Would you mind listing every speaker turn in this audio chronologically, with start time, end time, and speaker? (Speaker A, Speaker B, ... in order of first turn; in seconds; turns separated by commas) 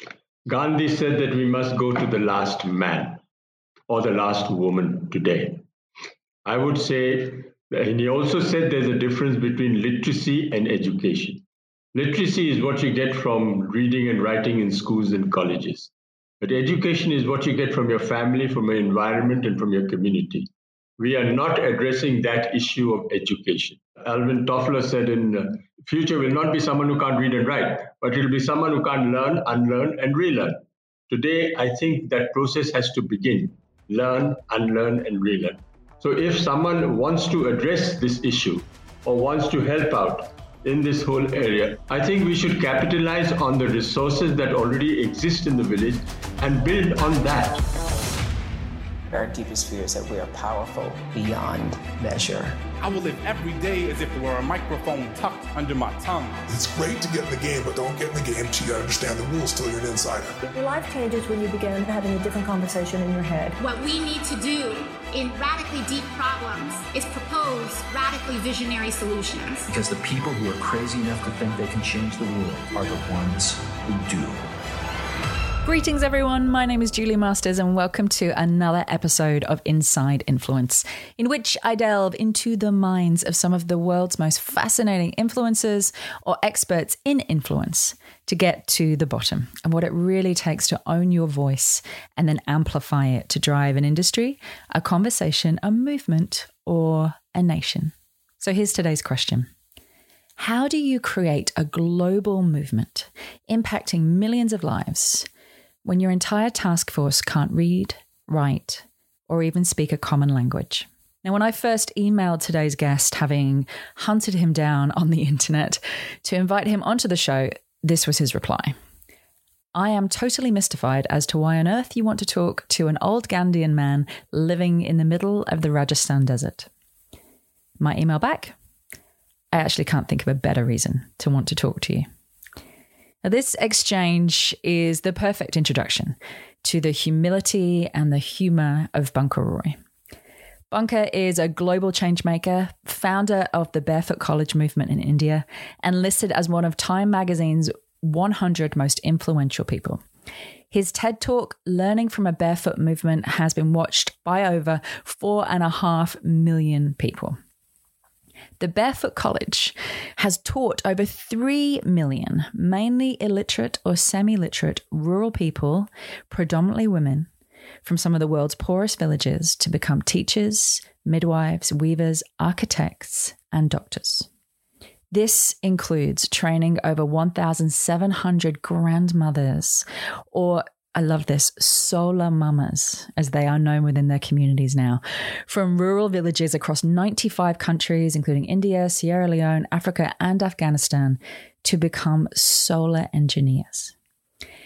Speaker A: 0.5-3.2, Speaker A: 3.9-5.6, Speaker A: 6.4-30.6, Speaker A: 31.1-47.6, Speaker B: 49.1-52.6, Speaker C: 52.8-56.4, Speaker D: 56.5-60.4, Speaker E: 60.4-63.6, Speaker F: 63.6-69.7, Speaker G: 69.7-74.5, Speaker H: 75.6-99.5, Speaker H: 100.4-105.3, Speaker H: 105.8-118.8, Speaker H: 119.7-126.7, Speaker H: 127.8-128.5, Speaker H: 129.5-132.1, Speaker H: 133.2-139.8, Speaker H: 140.7-150.0, Speaker H: 150.7-157.4, Speaker H: 158.6-167.3, Speaker H: 167.8-174.3, Speaker H: 175.1-193.9